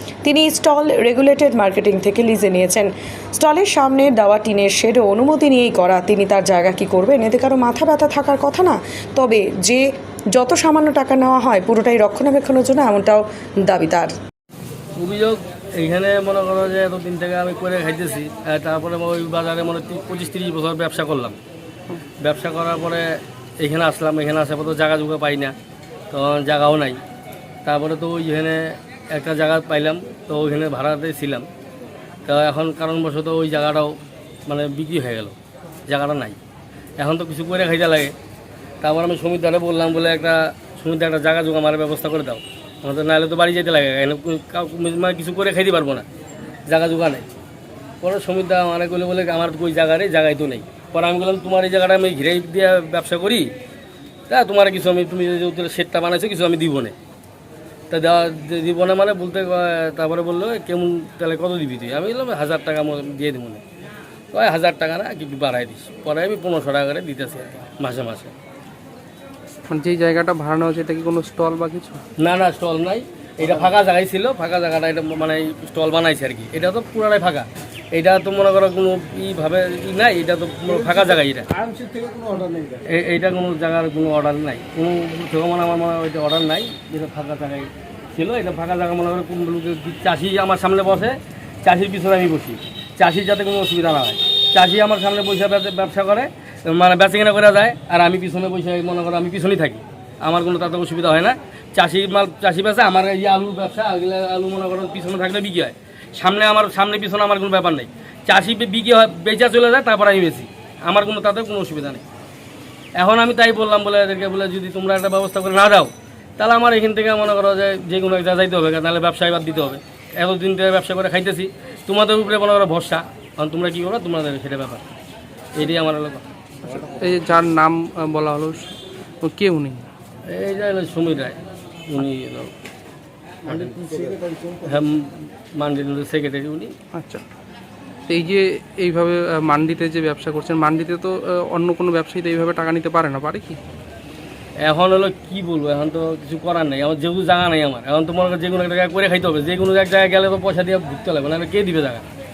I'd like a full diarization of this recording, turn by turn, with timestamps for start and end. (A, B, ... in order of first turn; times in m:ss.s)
0:00.2-0:14.1 A
0:15.0-0:21.4 B
0:22.2-0:25.5 B
0:26.1-0:27.0 B
0:27.6-0:31.5 B
0:32.3-0:35.3 B
0:35.9-0:36.4 B
0:37.0-0:38.1 B
0:38.8-0:46.0 B
0:46.7-0:47.3 B
0:48.0-0:53.5 B
0:54.3-0:57.0 B
0:57.9-1:03.6 B
1:04.3-1:08.3 B
1:09.7-1:12.0 C
1:12.2-1:21.5 B
1:22.4-1:52.0 B
1:53.0-2:04.8 B
2:05.5-2:06.2 B
2:07.0-2:08.7 C
2:09.2-2:09.8 C
2:10.3-2:11.4 B
2:11.9-2:12.5 B
2:13.4-2:16.7 B
2:18.1-2:23.6 C
2:24.6-2:32.0 B